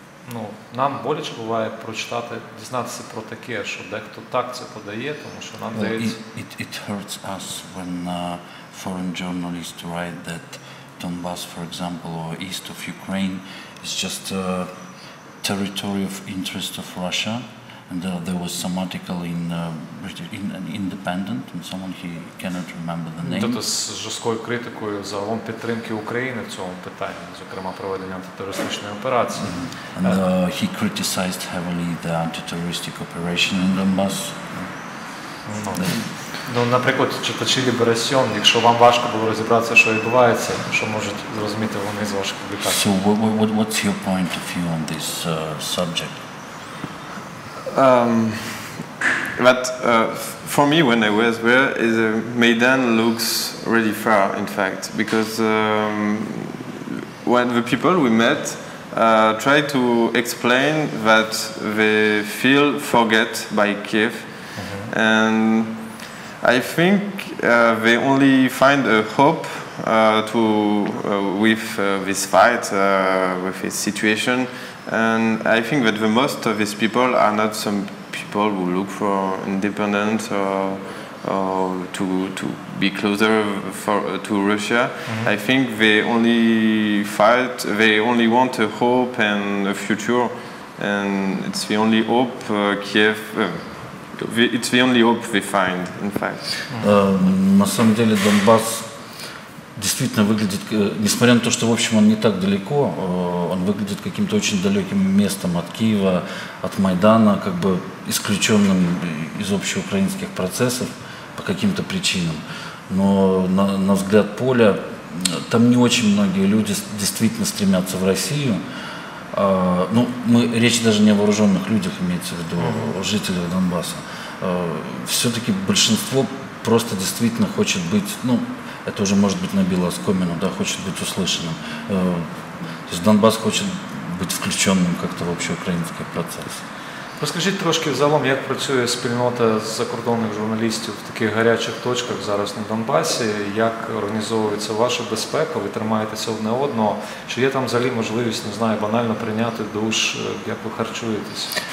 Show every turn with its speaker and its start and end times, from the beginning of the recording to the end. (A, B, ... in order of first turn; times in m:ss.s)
0:00.2-0:06.2 A
0:05.7-0:14.7 B
0:15.4-0:23.6 B
0:23.2-0:30.2 A
0:29.4-0:34.7 B
0:35.4-0:42.8 A
0:42.6-0:46.2 B
0:47.7-0:48.8 C
0:49.4-1:05.8 C
1:04.6-1:04.9 A
1:06.4-1:36.7 C
1:36.8-1:38.9 B
1:39.7-1:58.6 B
1:59.3-2:12.3 B
2:02.6-2:02.9 A
2:12.9-2:16.6 B
2:17.2-2:31.5 A